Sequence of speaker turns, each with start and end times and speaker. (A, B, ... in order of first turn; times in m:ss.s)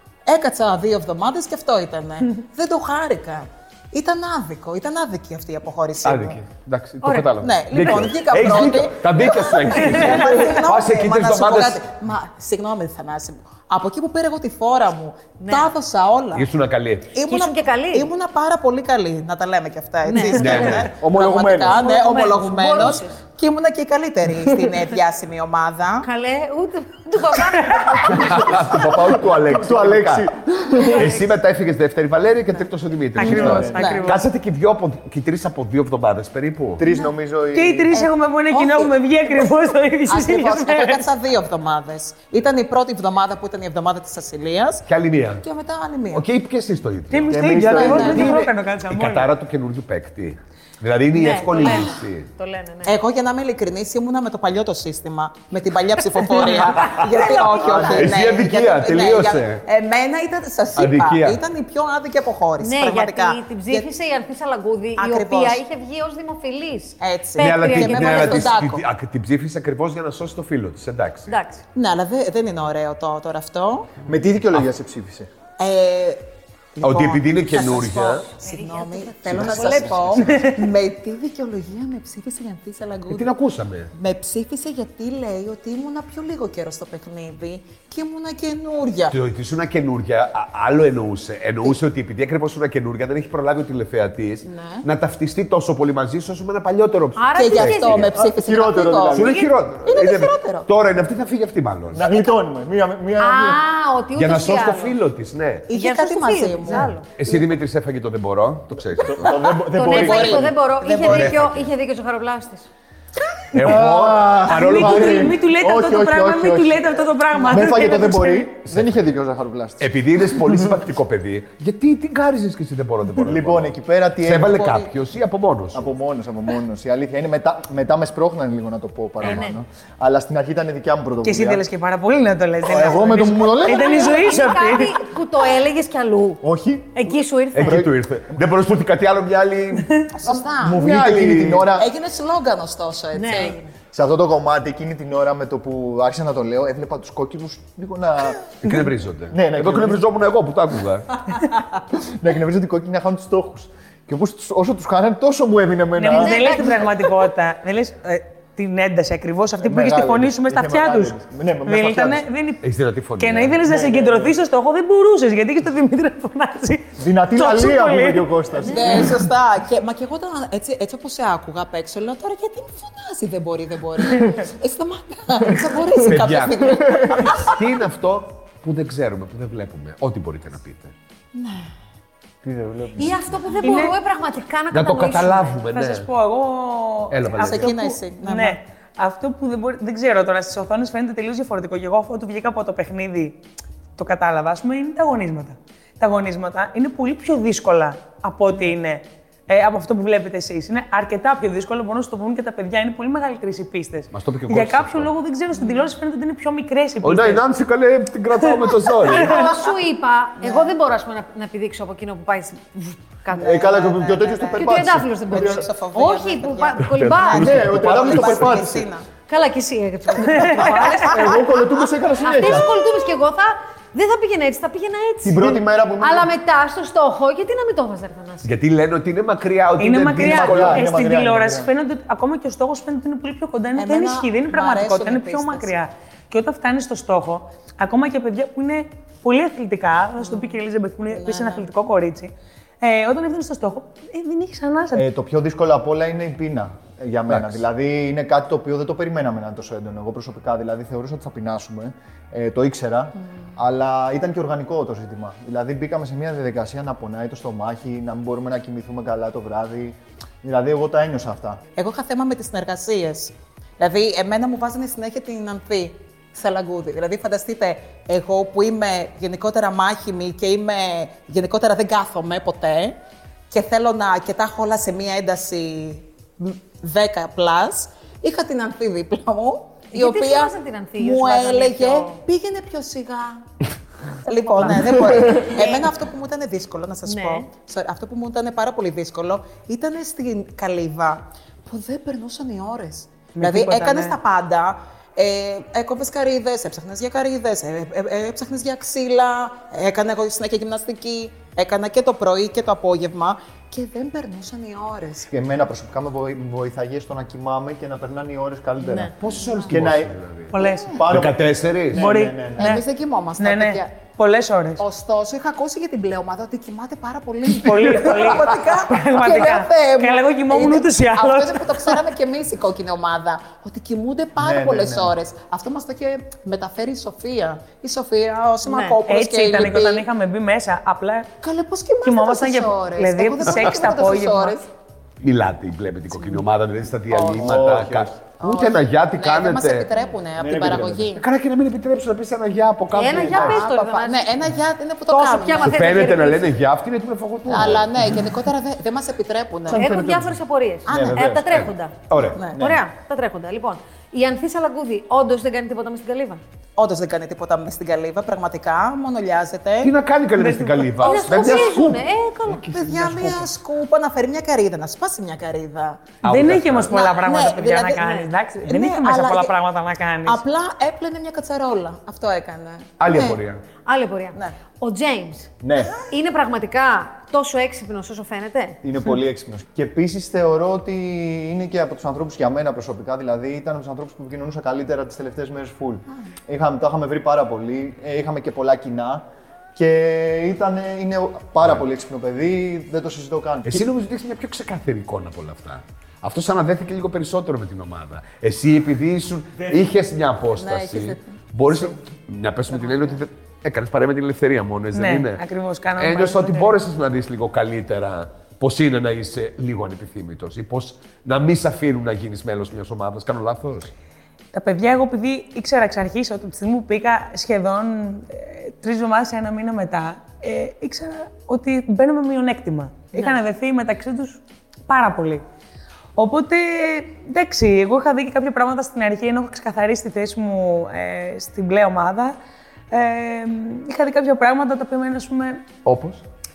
0:00.3-0:06.4 A
0:06.0-0:11.8 B
0:07.4-0:16.5 A
0:15.4-0:15.7 C
0:16.3-0:17.1 B
0:17.1-0:26.1 A
0:17.2-0:18.1 C
0:20.1-0:20.8 C
0:20.3-0:20.9 B
0:20.6-0:22.0 D
0:21.7-0:23.2 C
0:26.0-0:28.4 C
0:28.0-0:36.8 B
0:28.2-0:31.2 D
0:33.2-0:34.2 E
0:33.2-0:34.0 D
0:33.2-0:34.1 A
0:36.8-0:38.0 D
0:37.5-0:41.0 E
0:37.9-0:39.5 A
0:40.1-0:44.9 A
0:44.9-0:45.4 B
0:45.4-0:46.2 A
0:46.1-0:52.3 B
0:47.1-0:49.3 E
0:47.3-0:48.4 D
0:47.7-0:48.4 A
0:51.1-0:53.0 C
0:52.8-1:03.9 A
0:56.3-0:58.1 C
0:56.6-0:57.0 B
0:57.6-0:58.2 D
0:57.7-0:59.6 B
1:00.8-1:01.4 B
1:02.6-1:08.5 C
1:05.0-1:05.6 A
1:07.0-1:08.8 A
1:07.4-1:11.4 B
1:11.3-1:11.6 C
1:11.8-1:13.9 A
1:14.0-1:15.3 D
1:15.6-1:23.3 A
1:16.8-1:18.2 B
1:18.4-1:20.2 C
1:19.3-1:20.4 B
1:20.2-1:20.6 E
1:23.1-1:23.9 B
1:23.9-1:29.2 A
1:29.1-1:38.1 B
1:34.4-1:34.9 A
1:37.2-1:38.1 C
1:37.4-1:40.7 A
1:38.1-1:39.5 D
1:39.1-1:42.1 B
1:41.9-1:43.6 D
1:43.2-1:45.0 C
1:44.2-1:45.7 B
1:45.7-1:47.4 A
1:45.7-1:47.1 C
1:47.2-1:49.4 B
1:48.8-1:50.6 D
1:49.2-1:51.5 A
1:49.7-1:52.7 C
1:51.0-1:51.6 B
1:53.5-1:55.4 B
1:53.6-2:00.8 D
1:54.5-1:58.5 E
1:59.8-2:05.8 B
2:03.2-2:04.8 D
2:04.6-2:04.9 A
2:05.7-2:11.6 D
2:09.2-2:09.6 C
2:11.2-2:15.1 E
2:12.6-2:14.6 D
2:13.6-2:17.9 C
2:16.4-2:17.9 D
2:17.5-2:20.1 B
2:20.1-2:20.9 A
2:20.2-2:21.9 D
2:20.8-2:21.6 B
2:21.6-2:23.6 A
2:23.1-2:23.7 C
2:23.9-2:28.8 D
2:28.6-2:31.2 B
2:29.3-2:30.0 D
2:31.9-2:36.6 D
2:36.0-2:41.1 E
2:36.1-2:36.9 C
2:39.6-2:42.3 D
2:41.6-2:42.6 E
2:42.6-2:43.6 B
2:43.2-2:48.3 E
2:43.6-2:44.4 D
2:47.0-2:49.2 D
2:48.6-2:57.6 A
2:48.6-2:49.1 C
2:55.9-3:00.9 B
2:56.8-2:57.4 D
3:01.4-3:01.7 A
3:02.4-3:03.3 D
3:03.0-3:05.7 C
3:03.6-3:04.0 E
3:04.7-3:06.1 B
3:05.7-3:13.4 E
3:07.1-3:07.7 B
3:07.4-3:08.6 A
3:14.0-3:27.4 E
3:24.1-3:25.1 B
3:27.0-3:29.5 B
3:28.6-3:29.5 E
3:29.1-3:33.7 C
3:30.4-3:30.8 A
3:33.3-3:34.7 A
3:33.4-3:35.7 D
3:34.5-3:37.7 C
3:35.3-3:39.1 A
3:36.8-3:38.6 B
3:37.3-3:38.9 D
3:39.3-3:41.4 C
3:40.2-3:41.4 A
3:40.2-3:41.0 E
3:41.0-3:42.8 D
3:42.2-3:48.5 C
3:45.2-3:46.3 D
3:48.4-3:50.9 B
3:49.8-4:05.0 E
3:50.1-3:51.7 D
3:53.8-3:55.8 A
4:00.2-4:00.6 A
4:01.1-4:01.7 A
4:04.9-4:21.6 D
4:07.3-4:07.6 B
4:21.8-4:33.0 A
4:33.5-4:43.5 A
4:39.9-4:42.2 C
4:44.2-5:05.3 A
4:44.9-4:45.9 C
4:47.1-4:47.5 C
4:53.3-4:54.2 E
5:05.3-5:09.2 D
5:08.8-5:09.1 C
5:09.2-5:10.5 B
5:09.3-5:09.7 A
5:09.7-5:12.8 D
5:10.5-5:11.0 E
5:11.1-5:12.1 B
5:11.9-5:12.8 E
5:12.6-5:13.9 A
5:13.4-5:14.8 E
5:14.8-5:30.0 A
5:17.5-5:22.0 E
5:24.4-5:25.2 D
5:28.7-5:29.0 C
5:29.0-5:31.3 E
5:31.4-5:34.7 A
5:32.0-5:34.6 E
5:35.2-5:39.9 B
5:37.1-5:37.6 A
5:37.3-5:38.2 D
5:38.4-5:41.2 A
5:40.4-5:41.1 D
5:41.2-5:43.7 B
5:42.9-5:44.3 C
5:43.1-5:43.5 D
5:43.2-5:46.0 A
5:45.1-5:46.5 C
5:45.6-5:48.2 B
5:47.5-5:49.8 A
5:49.7-5:51.6 D
5:49.7-5:56.4 C
5:50.9-5:51.3 A
5:51.5-5:52.4 B
5:52.3-5:52.6 A
5:52.5-5:52.8 D
5:56.8-5:59.9 A
5:59.8-6:03.5 B
6:00.4-6:00.9 E
6:01.0-6:02.7 C
6:01.0-6:01.8 A
6:02.7-6:06.2 A
6:06.2-6:06.9 B
6:06.2-6:10.4 E
6:06.9-6:09.5 A
6:10.2-6:13.4 A
6:13.0-6:13.6 B
6:13.9-6:18.8 C
6:15.6-6:16.0 D
6:18.8-6:33.9 D
6:33.7-6:45.4 B
6:40.6-6:41.9 A
6:42.8-6:43.1 A
6:44.9-6:46.8 E
6:46.0-6:53.9 B
6:54.5-7:05.4 E
7:06.2-7:12.4 E
7:12.9-7:15.7 E
7:15.8-7:16.2 B